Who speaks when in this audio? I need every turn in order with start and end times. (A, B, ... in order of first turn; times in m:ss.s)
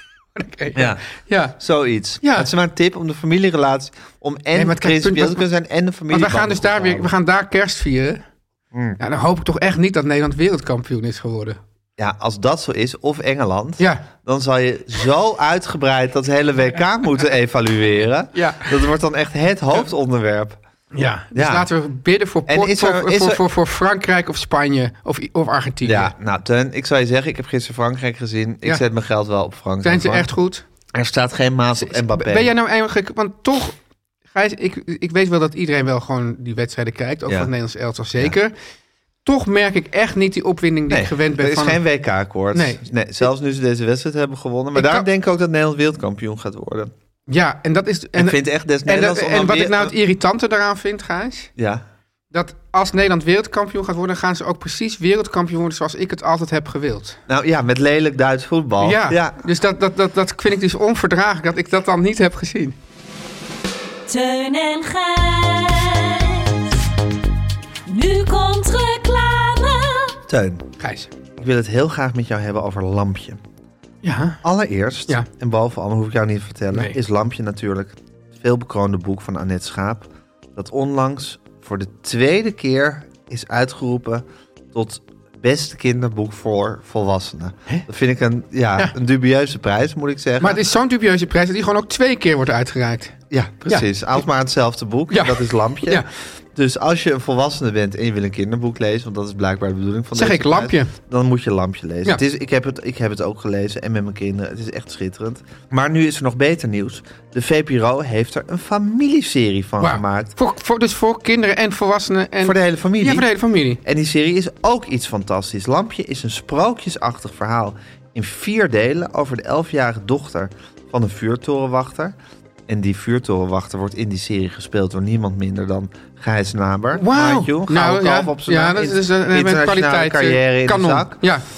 0:00.4-0:01.6 A
0:00.8-0:01.0 B
0:01.6-0:07.1 B
0:02.2-0:02.5 A
0:04.6-0:05.5 A
0:06.1-0:08.2 A
0:08.7-0:09.0 B
0:09.0-0:11.6 A
0:12.0-0:20.6 B
0:13.8-0:14.1 A
0:18.4-0:18.9 A
0:20.9-0:26.1 A
0:21.3-0:21.7 B
0:22.5-0:23.4 B
0:25.8-0:30.3 B
0:29.8-0:30.6 A
0:30.9-0:32.5 B
0:31.8-0:33.8 A
0:34.3-0:38.5 A
0:39.2-0:41.8 A
0:40.9-0:46.9 B
0:42.5-0:42.8 A
0:44.8-0:45.1 A
0:47.3-0:51.5 A
0:48.2-0:49.9 B
0:51.6-0:51.8 B
0:52.3-0:57.2 A
0:57.3-0:59.4 B
0:58.8-1:02.8 A
1:04.1-1:06.8 C
1:07.9-1:10.2 C
1:10.3-1:10.6 B
1:10.8-1:11.1 A
1:11.4-1:13.4 B
1:14.0-1:14.4 A
1:14.4-1:30.6 B
1:30.4-1:33.9 A
1:33.3-1:50.3 B
1:35.1-1:36.1 A
1:40.2-1:40.9 A
1:49.8-1:53.8 A
1:52.4-1:53.3 B
1:53.8-2:02.2 B
2:02.7-2:11.2 B
2:06.9-2:11.4 A